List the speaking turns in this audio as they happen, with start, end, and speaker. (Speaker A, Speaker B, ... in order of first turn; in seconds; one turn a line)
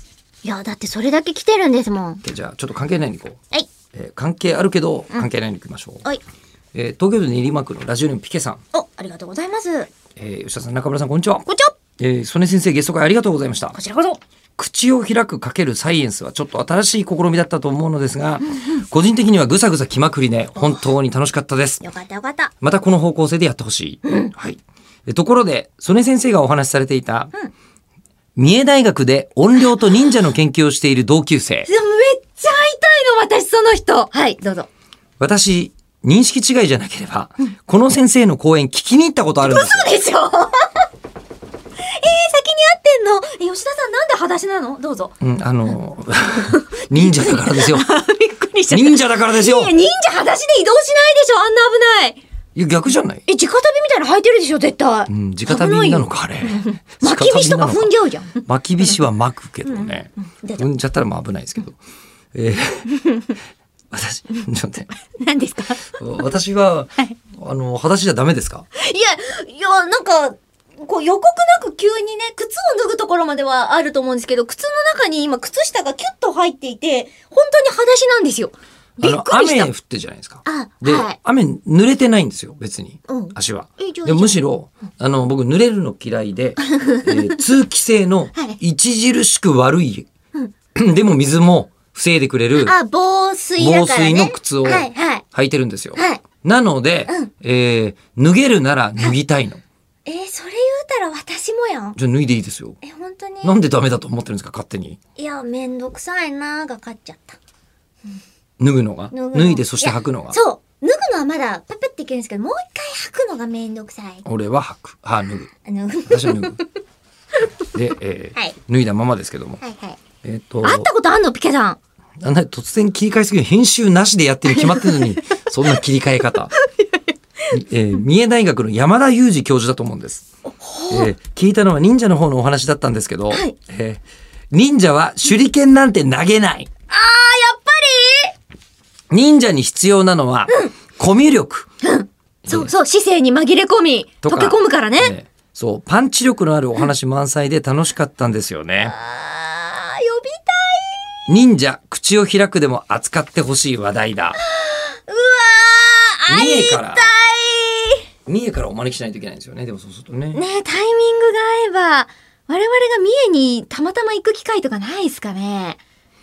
Speaker A: 0.4-2.2
Speaker B: 2.2-3.4
Speaker B: 3.9-6.0
Speaker B: 6.7-8.6
Speaker A: 8.7-9.9
Speaker B: 10.2-11.4
Speaker A: 11.4-11.8
Speaker B: 12.0-13.8
Speaker A: 13.7-14.2
Speaker B: 14.6-21.8
Speaker A: 20.6-20.9
Speaker A: 21.8-22.5
Speaker B: 22.6-27.3
Speaker A: 24.0-24.3
Speaker B: 28.4-31.7
Speaker A: 31.7-34.7
Speaker B: 35.2-40.0
Speaker A: 39.4-40.9
Speaker A: 42.0-45.1
Speaker B: 45.2-47.9
Speaker A: 46.4-52.2
Speaker B: 48.7-49.7
Speaker B: 52.5-53.2
Speaker A: 53.3-58.4
Speaker B: 55.1-61.8
Speaker A: 59.6-60.7
Speaker B: 62.3-62.9
Speaker A: 62.9-63.3
Speaker B: 63.9-64.9
Speaker A: 65.1-66.0
Speaker B: 65.9-68.7
Speaker A: 68.7-79.7
Speaker B: 79.0-90.1
Speaker A: 80.4-81.2
Speaker A: 83.1-84.4
Speaker A: 86.6-87.4
Speaker B: 90.7-92.7
Speaker A: 92.6-95.2
Speaker B: 93.6-99.6
Speaker A: 96.0-96.2
Speaker A: 100.0-102.0
Speaker B: 102.0-102.8
Speaker A: 102.8-103.6
Speaker B: 103.4-105.0
Speaker A: 105.2-107.4
Speaker B: 108.6-110.4
Speaker A: 109.1-114.2
Speaker B: 114.2-115.5
Speaker A: 115.6-116.6
Speaker B: 116.1-116.6
Speaker B: 117.7-119.6
Speaker A: 119.6-120.0
Speaker B: 120.2-120.9
Speaker A: 120.6-121.8
Speaker B: 122.2-126.5
Speaker A: 124.5-125.2
Speaker A: 126.5-126.9
Speaker B: 127.5-130.2
Speaker A: 130.5-131.1
Speaker B: 130.9-136.7
Speaker A: 133.3-133.5
Speaker A: 136.9-138.3
Speaker B: 139.1-141.7
Speaker A: 141.8-145.1
Speaker B: 142.4-142.7
Speaker B: 144.2-148.9
Speaker A: 148.8-151.2
Speaker B: 151.3-154.4
Speaker A: 154.3-158.0
Speaker B: 156.3-157.1
Speaker B: 158.2-160.4
Speaker A: 160.3-165.8